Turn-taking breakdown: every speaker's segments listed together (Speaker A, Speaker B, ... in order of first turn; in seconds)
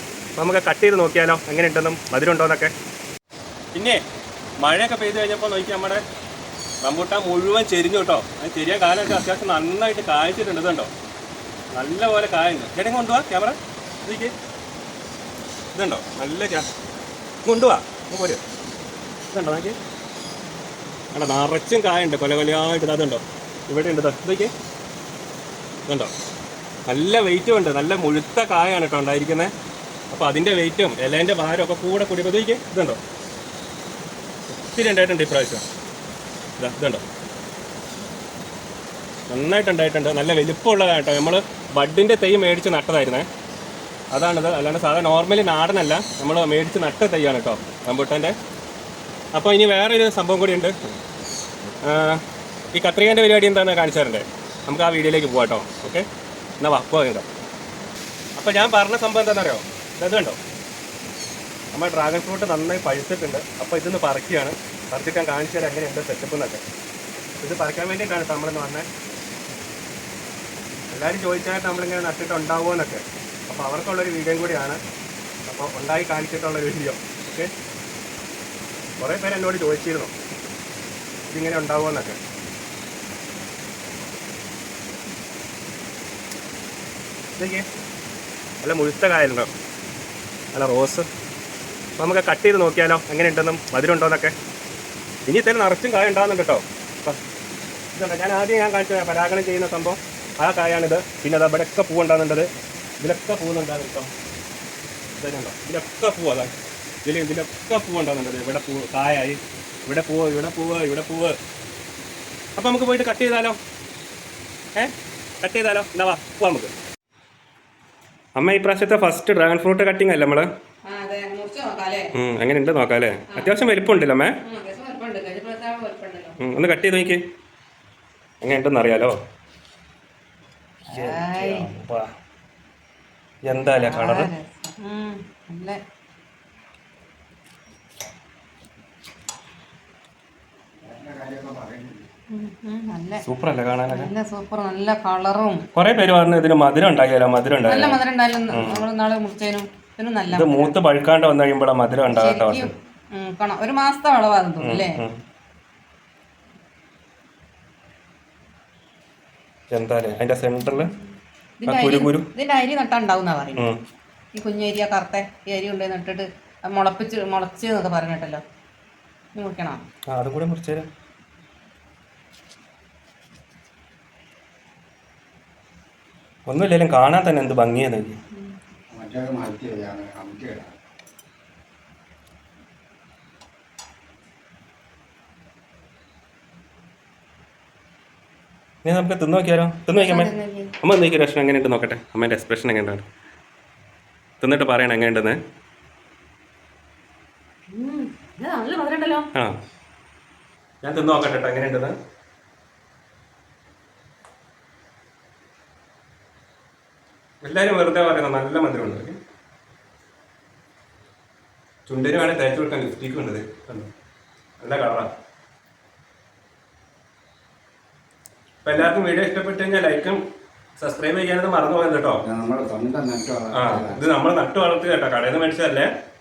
Speaker A: 0.3-2.7, 3.7-4.0, 4.6-6.0, 6.8-10.9, 11.7-14.3, 15.7-16.7, 17.4-18.4, 19.3-19.8, 21.1-24.5, 25.9-26.1, 26.9-29.5, 30.1-33.0, 34.5-35.6, 36.6-37.0, 39.3-43.3, 44.1-48.4, 49.3-50.8, 51.8-52.2, 52.7-56.0, 56.6-57.3, 58.4-60.4, 61.7-66.6, 67.4-68.9, 70.9-74.8, 75.5-77.5, 79.0-80.1, 81.3-82.2, 87.4-87.6, 88.6-89.5, 90.5-91.1, 92.0-94.3, 95.2-97.2, 97.9-102.5, 103.0-104.1, 105.2-106.5, 107.0-111.4, 112.5-113.6, 114.7-116.7, 118.3-120.5, 122.1-124.4, 126.4-127.2, 128.4-129.2, 130.9-132.1, 133.4-134.3, 143.2-144.1, 145.7-148.0, 148.5-148.8, 150.3-152.7, 154.6-155.2, 159.7-160.9, 161.7-162.3, 170.1-170.9, 176.5-178.2, 188.8-193.0, 194.4-195.4, 200.8-201.9, 207.4-209.2, 211.9-213.9, 214.6-215.1, 218.6-220.2, 220.8-222.2, 223.5-225.9
Speaker B: 120.9-122.1, 124.4-126.3, 130.9-131.7, 133.6-135.8, 142.3-143.2, 143.9-145.7, 147.6-150.7, 152.1-155.0, 160.6-163.7, 164.3-168.4, 169.3-169.8, 189.9-190.7, 197.7-199.3
Speaker C: 140.8-142.1, 178.9-180.7, 222.2-224.0